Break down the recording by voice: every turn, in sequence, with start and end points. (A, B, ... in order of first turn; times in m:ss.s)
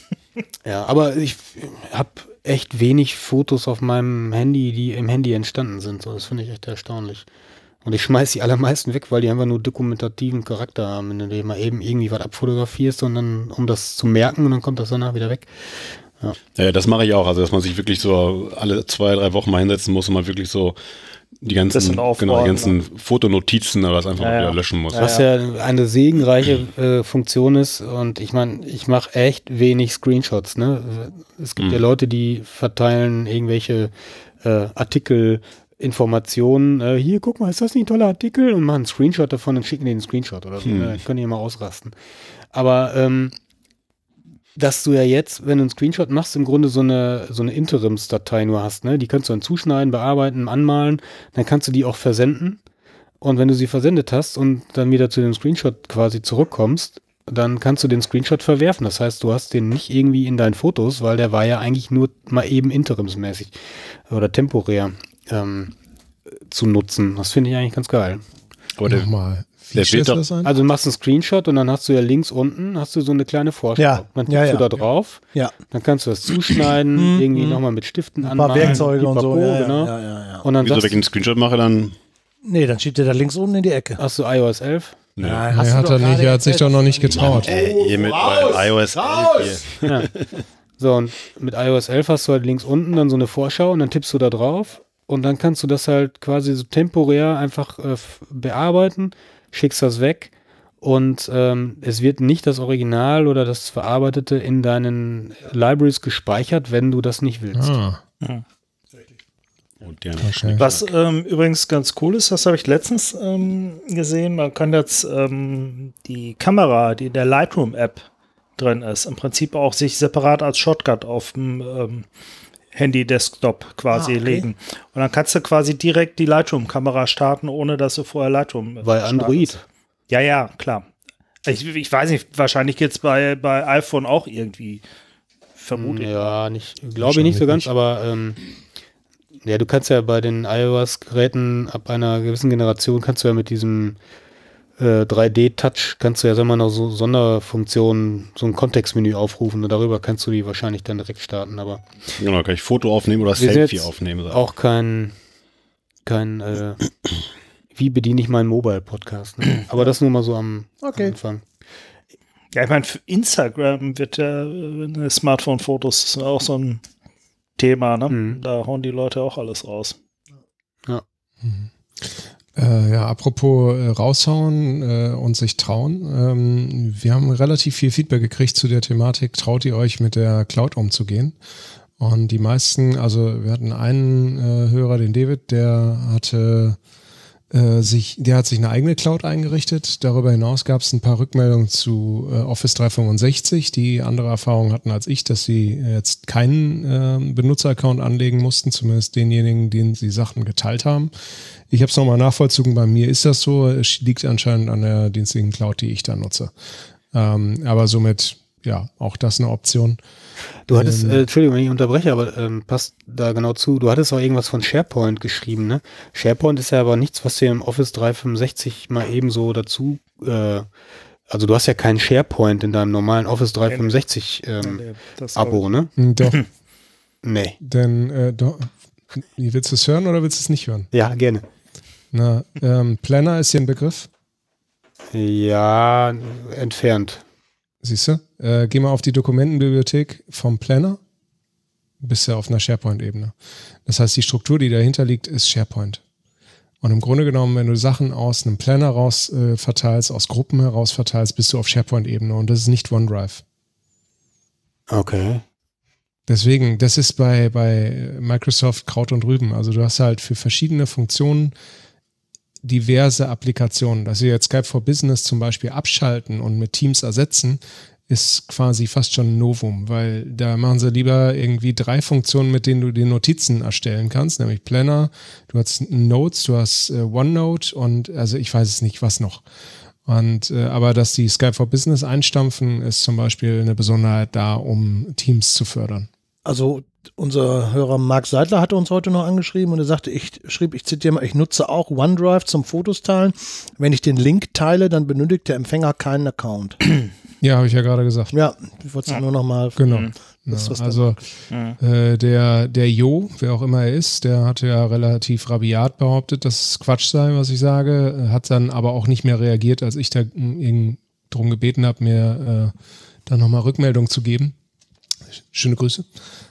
0:00.6-0:07.2 A
0:07.8-0:16.4 A
0:16.5-0:20.8 B
0:21.4-0:25.2 B
0:21.7-0:22.7 C
0:24.2-0:25.2 C
0:24.9-0:41.9 A
0:40.6-0:41.0 B
0:42.5-0:43.3 A
0:44.6-0:52.6 A
0:53.2-1:05.7 A
1:06.3-1:08.2 A
1:08.8-1:09.1 B
1:08.8-1:10.5 D
1:09.7-1:10.2 B
1:10.4-1:21.0 A
1:13.8-1:15.5 E
1:17.0-1:17.6 E
1:18.2-1:20.4 E
1:20.6-1:22.0 B
1:22.4-1:24.0 E
1:24.0-1:25.0 A
1:25.2-1:25.4 B
1:25.2-1:29.6 E
1:25.5-1:27.6 D
1:27.1-1:30.2 B
1:29.8-1:30.1 A
1:30.8-1:47.8 A
1:47.5-1:48.0 D
1:49.8-1:50.9 B
1:50.2-1:50.7 D
1:50.6-1:58.0 C
1:58.6-2:02.0 C
2:02.7-2:10.9 C
2:03.9-2:04.5 E
2:08.8-2:09.6 A
2:11.4-2:14.8 C
2:15.6-2:16.3 C
2:15.7-2:18.4 A
2:17.0-2:17.7 D
2:19.4-2:24.0 A
2:24.8-2:31.8 A
2:32.2-2:34.4 B
2:33.4-2:35.1 A
2:36.0-2:36.9 A
2:37.7-2:41.4 A
2:40.8-2:41.1 E
2:42.5-2:46.8 C
2:47.6-2:50.0 C
2:48.1-2:48.4 A
2:51.4-3:01.4 D
3:02.0-3:06.8 D
3:07.5-3:21.1 D
3:21.7-3:26.5 D
3:27.1-3:30.0 D
3:30.7-3:40.6 A
3:30.7-3:31.2 D
3:41.3-3:44.8 A
3:43.7-3:44.0 C
3:44.6-3:45.6 C
3:45.3-3:45.9 A
3:46.0-3:46.4 D
3:47.2-3:47.6 A
3:47.6-3:50.9 D
3:50.9-3:51.4 A
3:52.1-3:54.1 D
3:55.1-3:57.2 A
3:57.8-4:01.0 D
4:02.0-4:06.0 D
4:06.8-4:13.4 D
4:14.9-4:15.4 A
4:16.3-4:21.5 D
4:22.6-4:39.4 D
4:40.0-4:46.1 D
4:46.4-4:56.8 E
4:57.4-4:58.4 D
4:58.3-4:59.9 E
4:59.8-5:01.3 D
5:00.5-5:01.2 E
5:01.5-5:01.8 C
5:01.8-5:12.7 D
5:13.2-5:14.5 D
5:15.5-5:16.1 D